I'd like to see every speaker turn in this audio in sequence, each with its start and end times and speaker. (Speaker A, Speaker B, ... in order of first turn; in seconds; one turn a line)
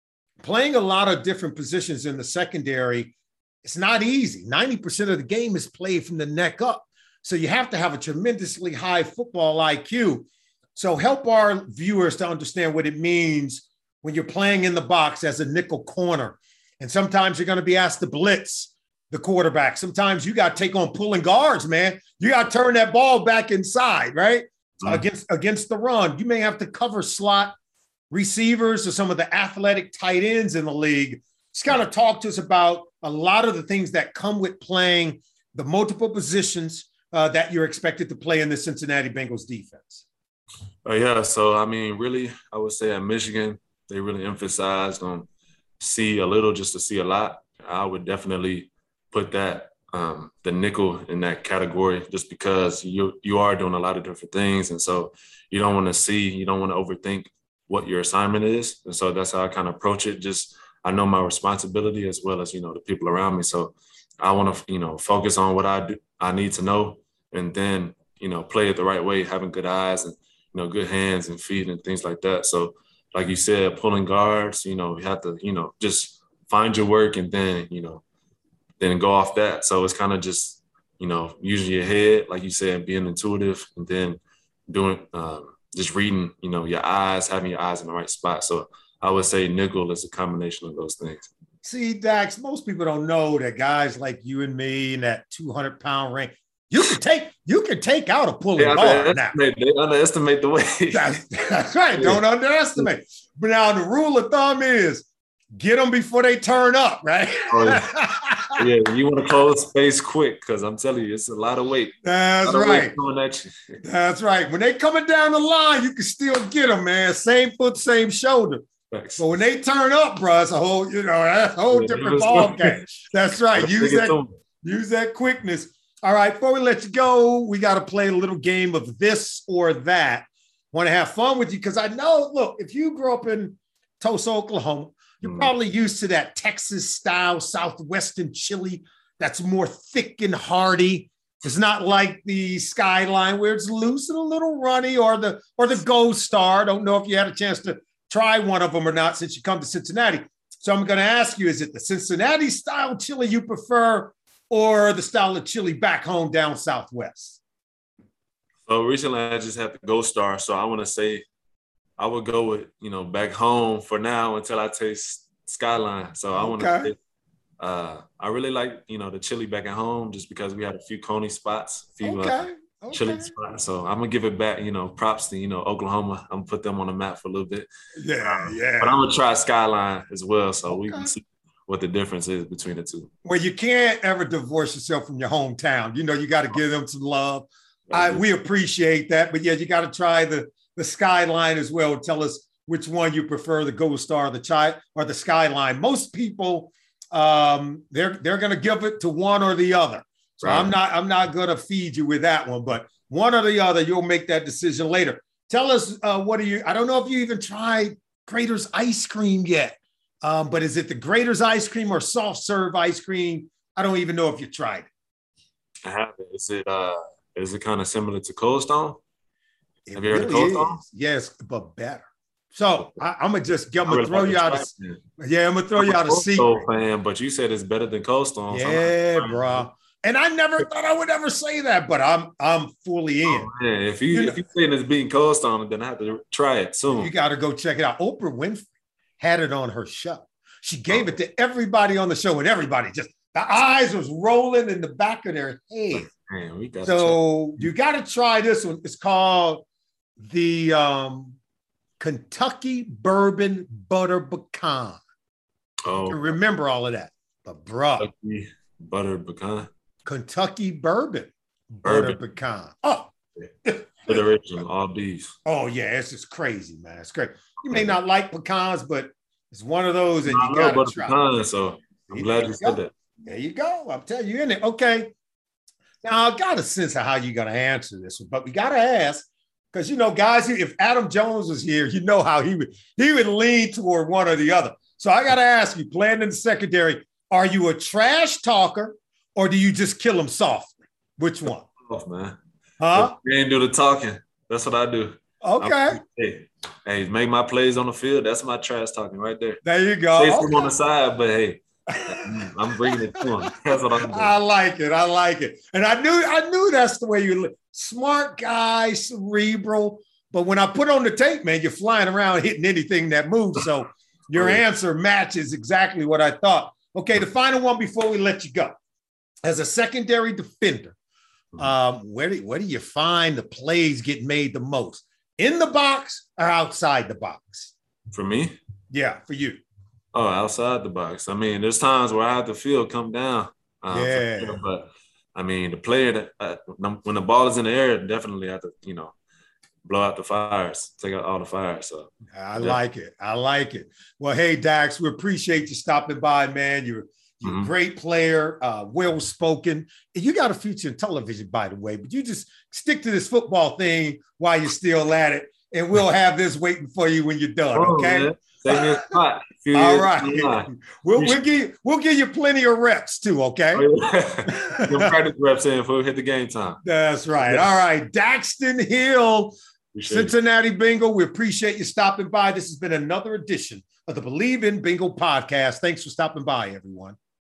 Speaker A: 0.4-27.5
Speaker A: 28.1-40.0
Speaker B: 40.9-45.3
Speaker B: 45.8-78.0
Speaker B: 78.8-91.3
Speaker A: 91.6-99.3
Speaker B: 98.6-101.1
Speaker A: 100.9-108.6
Speaker B: 101.9-102.2
Speaker B: 107.5-107.8
Speaker B: 108.5-113.8
Speaker A: 112.0-113.0
Speaker A: 113.8-118.6
Speaker B: 118.9-119.3
Speaker A: 119.2-157.4
Speaker B: 121.7-124.3
Speaker B: 135.2-135.5
Speaker B: 158.7-161.2
Speaker B: 162.0-167.0
Speaker A: 166.3-166.9
Speaker B: 167.6-177.7
Speaker A: 172.0-173.3
Speaker A: 178.0-179.0
Speaker B: 178.2-183.1
Speaker A: 180.7-181.1
Speaker A: 183.2-214.9
Speaker B: 187.9-188.2
Speaker B: 200.4-200.7
Speaker B: 215.8-219.0
Speaker A: 219.9-224.7
Speaker B: 219.9-220.8
Speaker B: 223.8-225.0
Speaker A: 225.2-226.6
Speaker B: 225.8-229.7
Speaker A: 228.5-233.5
Speaker B: 233.3-237.1
Speaker A: 234.1-234.4
Speaker A: 236.9-238.7
Speaker A: 239.2-246.1
Speaker B: 240.9-241.2
Speaker B: 245.9-247.7
Speaker A: 246.8-249.6
Speaker A: 250.2-251.4
Speaker A: 252.0-255.0
Speaker B: 255.8-256.3
Speaker A: 255.9-258.1
Speaker B: 258.0-259.7
Speaker A: 260.1-263.1
Speaker B: 261.8-262.2
Speaker A: 263.6-264.2
Speaker B: 264.1-265.3
Speaker A: 265.5-271.2
Speaker B: 267.7-268.0
Speaker B: 270.2-272.9
Speaker A: 272.1-275.1
Speaker A: 276.0-291.7
Speaker B: 291.9-292.4
Speaker A: 292.8-293.1
Speaker B: 292.9-299.6
Speaker A: 295.4-296.0
Speaker A: 299.6-300.7
Speaker B: 300.1-304.4
Speaker A: 304.0-318.7
Speaker A: 319.4-321.0
Speaker A: 321.6-327.7
Speaker B: 328.1-328.6
Speaker A: 328.9-329.6
Speaker B: 330.1-339.1
Speaker A: 333.9-334.6
Speaker B: 339.9-342.8
Speaker A: 342.3-358.8
Speaker B: 347.4-347.7
Speaker B: 357.7-361.4
Speaker A: 359.7-363.9
Speaker B: 363.7-366.8
Speaker A: 364.5-365.1
Speaker A: 366.8-369.6
Speaker B: 367.4-367.8
Speaker B: 369.9-370.3
Speaker A: 370.1-377.2